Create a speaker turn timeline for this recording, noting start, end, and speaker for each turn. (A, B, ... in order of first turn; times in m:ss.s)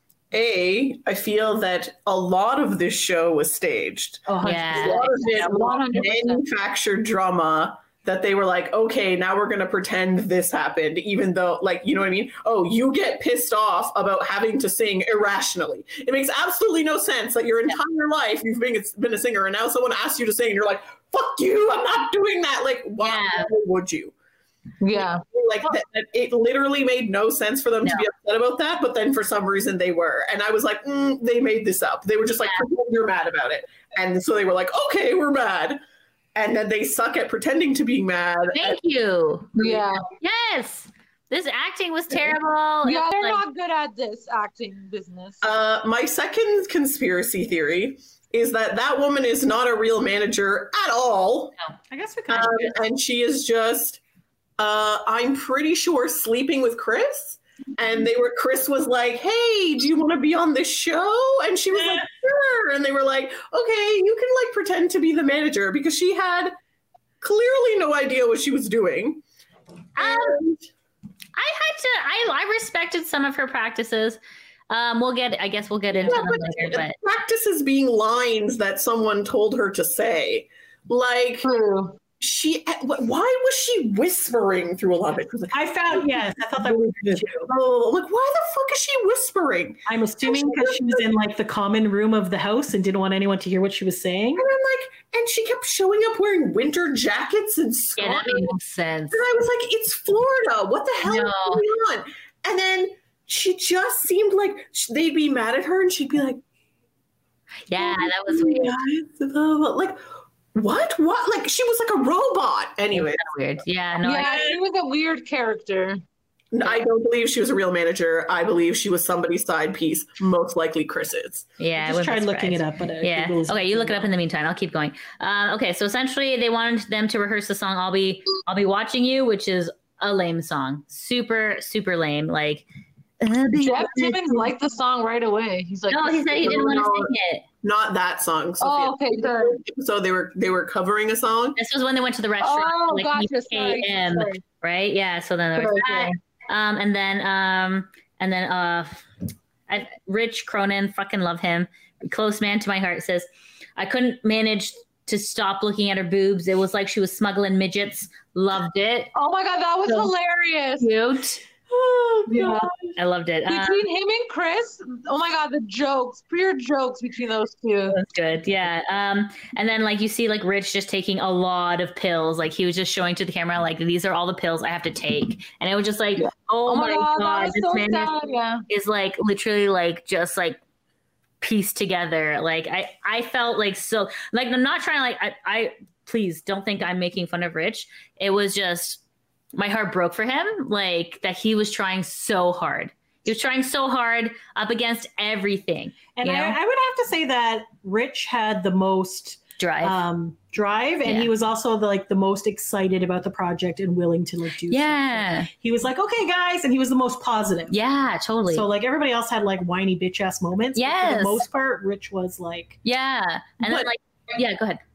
0:00.3-0:24.1 A
0:04.3-0:05.2 B
0:04.4-0:05.1 C
0:04.8-0:06.4 D
0:23.0-0:23.5 C
0:24.8-0:25.2 D
0:25.2-0:35.8 A
0:36.3-0:38.8 A
0:38.5-0:39.6 C
0:39.6-0:40.1 D
0:40.2-0:43.4 C
0:42.8-0:45.4 D
0:45.4-0:51.6 A
0:51.9-0:52.7 B
0:52.3-0:54.0 A
0:54.6-1:06.6 A
1:07.2-1:09.2 A
1:10.0-1:10.4 C
1:10.0-1:10.6 A
1:11.4-1:14.2 C
1:14.7-1:16.9 C
1:16.0-1:21.5 A
1:21.4-1:22.0 D
1:22.2-1:31.0 A
1:25.5-1:27.5 B
1:29.8-1:34.4 B
1:34.4-1:38.6 A
1:38.0-1:39.2 C
1:39.1-1:46.4 A
1:41.0-1:41.6 C
1:47.7-1:48.8 C
1:47.7-1:50.0 A
1:50.5-1:53.2 A
1:52.9-1:54.5 C
1:54.0-1:56.0 D
1:56.5-2:01.4 A
2:01.6-2:12.6 C
2:01.8-2:04.1 B
2:13.2-2:14.5 C
2:13.6-2:16.6 D
2:15.9-2:17.4 C
2:16.4-2:21.6 A
2:18.6-2:19.6 D
2:21.6-2:29.1 C
2:22.4-2:24.4 D
2:25.6-2:26.1 D
2:29.7-2:39.1 C
2:39.1-2:40.9 D
2:39.8-2:40.1 C
2:40.8-2:41.4 C
2:41.7-2:42.7 B
2:42.3-2:42.7 D
2:43.0-2:43.8 C
2:43.5-2:48.0 D
2:47.9-2:58.1 C
2:56.2-2:58.6 D
2:58.7-3:00.6 C
3:01.4-3:09.0 C
3:09.5-3:16.6 C
3:16.2-3:27.8 B
3:19.6-3:20.0 C
3:21.0-3:21.3 C
3:24.7-3:25.5 C
3:27.7-3:28.7 C
3:28.5-3:32.8 B
3:30.8-3:31.4 C
3:32.8-3:34.8 C
3:33.6-3:33.9 A